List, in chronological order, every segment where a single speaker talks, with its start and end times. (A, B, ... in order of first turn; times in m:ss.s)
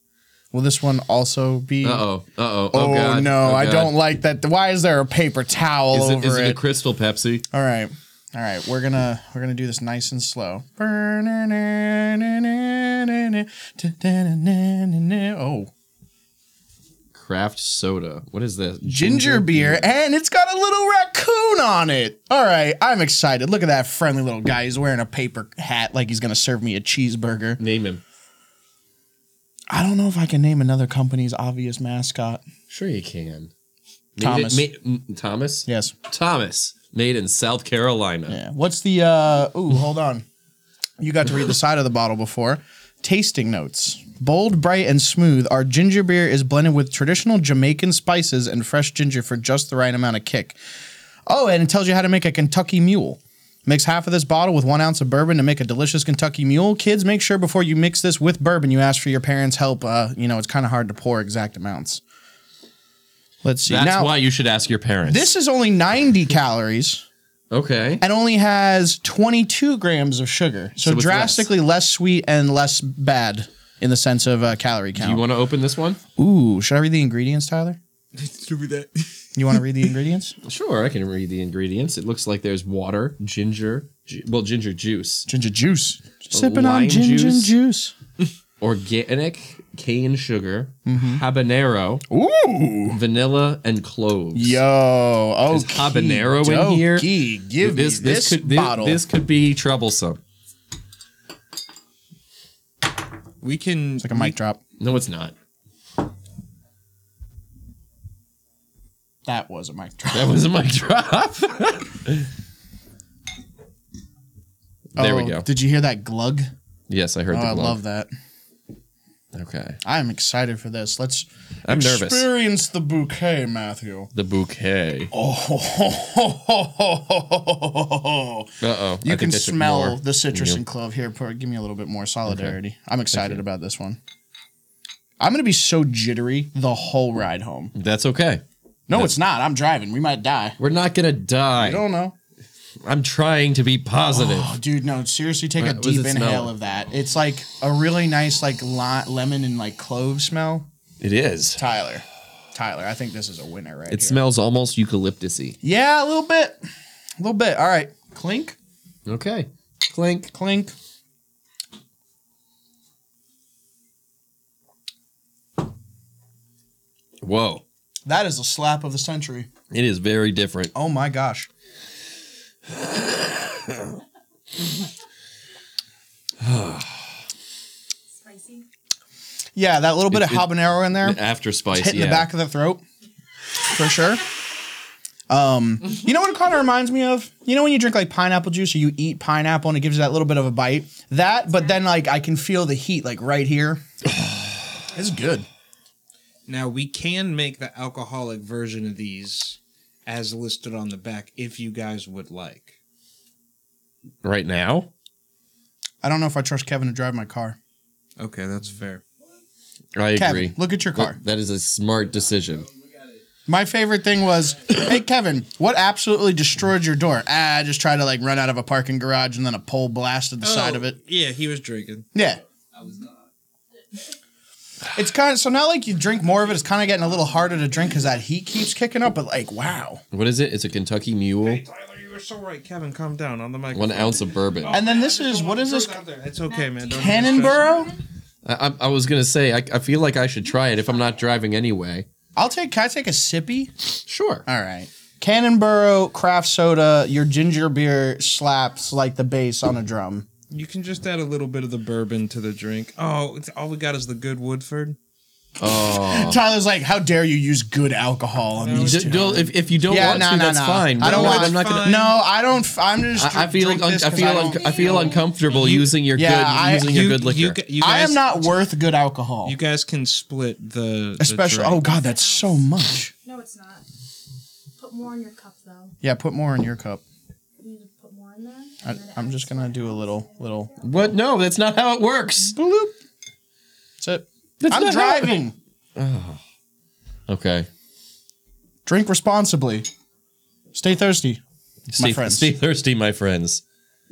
0:00.5-0:02.0 A
0:01.8-0:03.9 B
0:02.7-0:06.6 A
0:05.9-0:07.4 B
0:07.5-0:15.7 A
0:17.1-0:19.9 B
0:18.8-0:27.6 A
0:27.6-0:28.0 B
0:29.7-0:32.4 A
0:32.7-0:33.5 B
0:34.2-0:38.4 B
0:34.2-0:34.6 A
0:35.6-0:35.9 A
0:38.3-0:40.2 A
0:41.0-0:50.6 A
0:51.3-1:02.0 A
1:03.4-1:04.2 A
1:03.6-1:05.3 B
1:05.1-1:07.0 A
1:07.5-1:08.0 B
1:08.0-1:15.2 A
1:10.8-1:11.5 B
1:14.9-1:16.0 B
1:16.2-1:17.8 A
1:18.1-1:19.2 C
1:19.4-1:20.4 A
1:20.4-1:25.3 B
1:25.3-1:27.9 A
1:26.3-1:27.5 B
1:28.6-1:32.0 B
1:30.8-1:31.2 A
1:32.1-1:33.0 A
1:32.9-1:34.6 B
1:34.3-1:39.0 A
1:35.5-1:40.2 B
1:43.4-1:44.4 C
1:44.0-1:44.6 A
1:44.8-1:45.3 B
1:49.2-1:50.4 A
1:50.1-1:52.3 B
1:55.0-1:55.5 B
1:55.0-1:56.5 A
1:56.9-1:57.8 B
1:57.3-1:58.1 A
1:59.3-1:59.8 B
1:59.8-2:04.1 A
2:01.6-2:02.3 B
2:04.1-2:05.1 B
2:05.1-2:14.0 A
2:08.6-2:10.6 B
2:12.3-2:12.6 B
2:13.1-2:13.4 B
2:15.2-2:17.7 A
2:17.7-2:19.1 B
2:18.9-2:20.6 A
2:20.6-2:21.8 B
2:21.6-2:22.1 A
2:22.8-2:24.5 B
2:24.1-2:30.7 A
2:25.6-2:26.5 B
2:31.0-2:31.6 B
2:31.6-2:34.2 A
2:33.9-2:35.6 B
2:35.6-2:36.6 A
2:37.2-2:38.6 A
2:39.0-2:40.3 B
2:40.3-2:40.7 A
2:47.2-2:47.6 B
2:48.0-2:49.5 A
2:49.7-2:50.7 B
2:50.7-2:51.5 A
2:52.7-2:54.0 B
2:56.4-2:57.1 B
2:58.1-2:58.6 D
2:59.6-3:02.8 A
3:00.1-3:02.3 B
3:03.7-3:04.3 A
3:05.3-3:13.8 A
3:14.9-3:15.4 A
3:16.5-3:22.8 C
3:24.2-3:24.9 B
3:26.0-3:27.6 A
3:28.2-3:29.0 C
3:29.9-3:32.7 B
3:30.2-3:31.2 A
3:33.5-3:41.0 A
3:40.4-3:42.0 C
3:42.1-3:42.4 A
3:44.9-3:50.0 A
3:50.1-3:51.6 B
3:51.4-3:57.8 C
3:53.7-3:54.8 B
3:54.7-3:56.0 A
3:56.4-3:58.0 D
3:56.9-3:57.9 A
3:58.4-4:02.1 B
4:02.4-4:03.7 A
4:04.1-4:04.4 B
4:04.4-4:10.3 A
4:10.5-4:15.0 C
4:15.6-4:16.4 B
4:15.6-4:19.2 A
4:18.6-4:20.3 C
4:18.7-4:22.0 B
4:19.9-4:24.9 A
4:21.0-4:22.2 C
4:23.2-4:27.6 B
4:24.3-4:25.8 D
4:24.7-4:25.9 C
4:26.1-4:27.2 A
4:26.9-4:28.5 C
4:27.8-4:29.6 A
4:29.4-4:31.8 C
4:31.2-4:33.1 A
4:31.7-4:32.7 D
4:33.2-4:33.8 D
4:34.8-4:36.0 D
4:36.0-4:37.0 A
4:37.6-4:41.1 D
4:38.8-4:40.7 A
4:40.8-4:42.5 B
4:42.5-4:42.9 A
4:44.0-4:45.6 A
4:44.6-4:45.4 B
4:46.0-4:46.4 B
4:47.3-4:47.7 B
4:48.8-4:49.9 A
4:50.7-4:51.4 A
4:51.9-4:53.6 B
4:52.0-4:52.5 A